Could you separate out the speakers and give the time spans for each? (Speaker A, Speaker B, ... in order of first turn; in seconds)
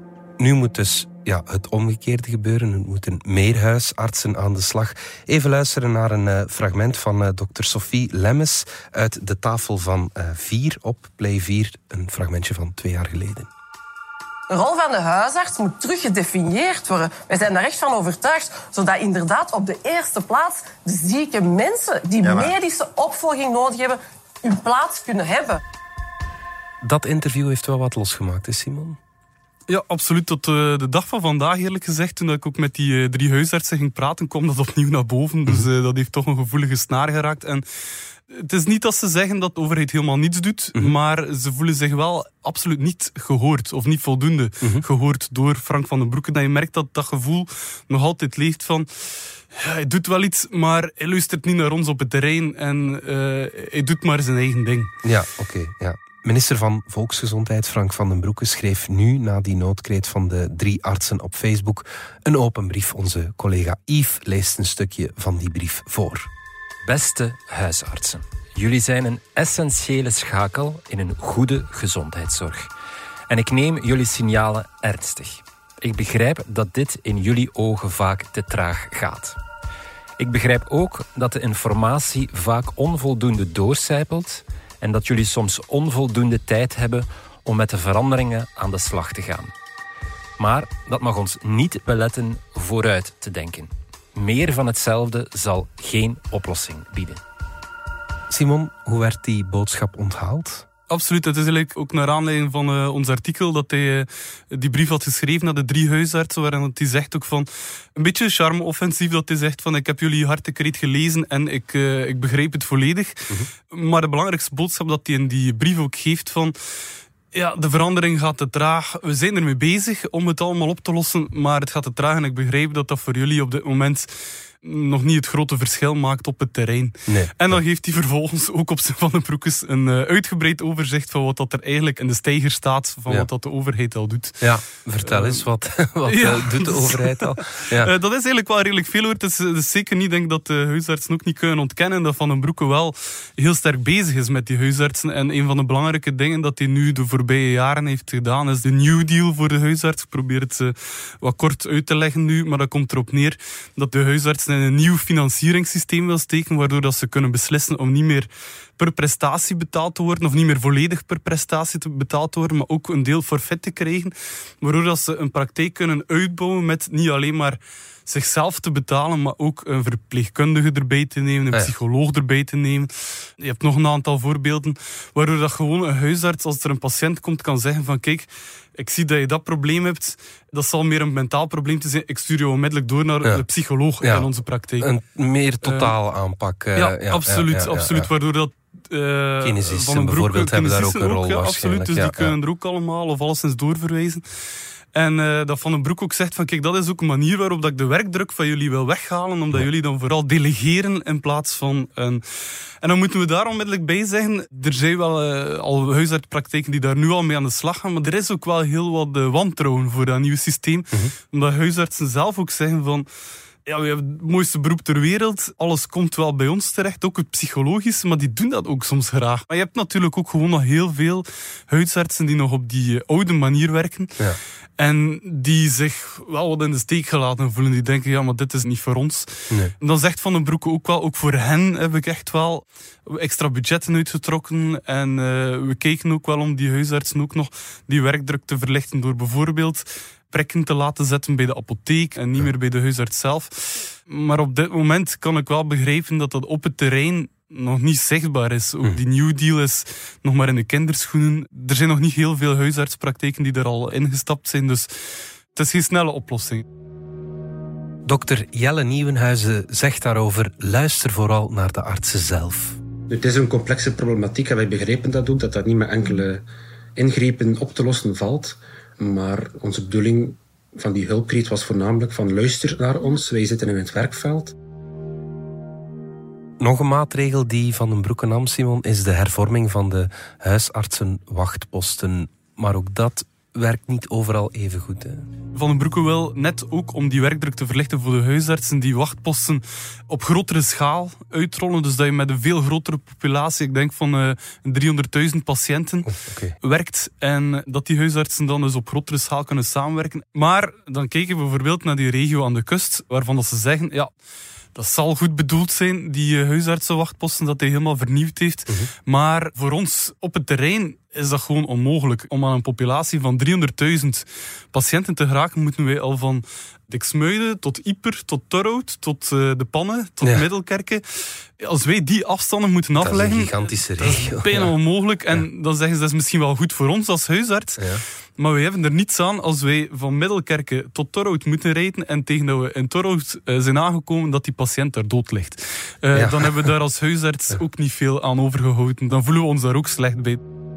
Speaker A: 0.4-13.5, 26.8-29.0, 55.0-66.3, 98.3-100.7, 127.1-127.6, 134.4-137.9, 184.0-188.1, 189.4-192.4, 258.1-262.8, 276.6-285.2, 296.1-296.6, 323.0-324.7, 327.8-328.0, 336.1-336.7
Speaker B: 14.5-25.6
Speaker C: 29.7-37.6, 38.3-54.9, 100.9-116.6, 117.3-135.5, 136.0-184.9, 185.6-185.9, 186.8-194.3, 194.9-213.1, 213.7-224.2, 224.8-254.9, 255.5-256.6, 285.5-304.1, 304.8-327.8, 328.4-340.4
Speaker D: 66.9-72.7, 73.3-79.4, 80.2-89.5, 90.4-97.2
Speaker E: 263.1-266.4, 266.9-274.6